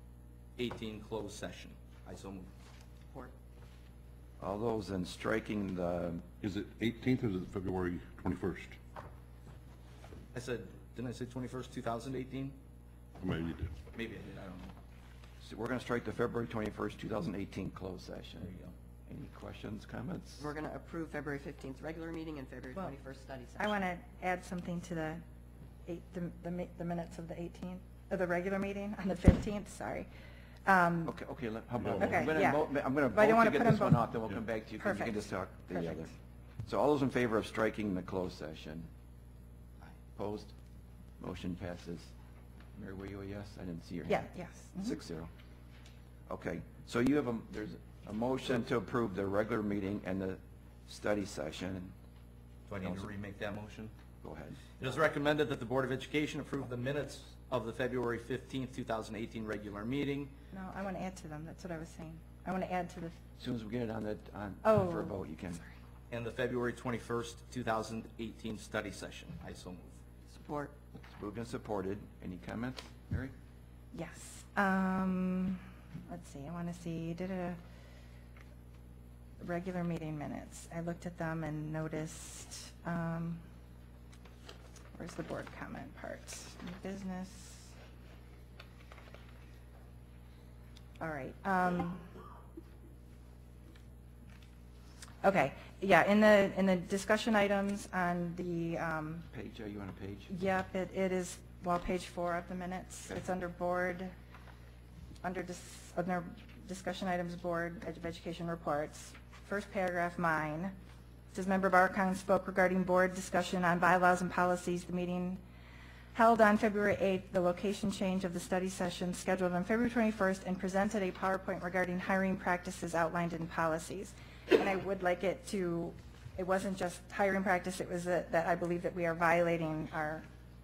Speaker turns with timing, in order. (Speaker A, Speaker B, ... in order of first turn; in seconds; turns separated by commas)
Speaker A: 0.6-2.5, Speaker B: 4.4-6.2, Speaker C: 6.4-8.8, Speaker A: 10.3-12.6, Speaker C: 13.2-13.8, Speaker A: 13.9-14.8, Speaker B: 15.4-18.5, Speaker A: 18.4-18.8, Speaker B: 19.1-20.5, Speaker D: 20.4-23.9, Speaker E: 23.6-25.2, Speaker E: 25.9-30.1, Speaker E: 30.6-31.1, Speaker B: 31.1-36.1, Speaker C: 31.8-32.4, Speaker E: 32.0-34.1, Speaker E: 34.8-36.1, Speaker B: 36.7-38.9, Speaker B: 40.2-40.5, Speaker B: 41.2-42.1, Speaker B: 42.8-45.3, Speaker E: 44.1-45.0, Speaker B: 46.3-51.9, Speaker A: 52.7-53.9, Speaker B: 52.8-53.1, Speaker B: 54.2-54.6, Speaker A: 54.8-60.3, Speaker E: 60.5-63.2, Speaker B: 63.4-65.6, Speaker E: 64.6-65.2, Speaker A: 66.1-70.0, Speaker D: 70.3-70.8, Speaker B: 71.0-73.3, Speaker E: 73.9-77.6, Speaker E: 79.4-83.4, Speaker E: 85.0-87.7, Speaker E: 91.0-92.1, Speaker E: 95.2-99.3, Speaker B: 99.3-100.4, Speaker E: 100.3-104.1, Speaker E: 105.2-110.7, Speaker E: 111.3-115.4, Speaker E: 116.1-130.2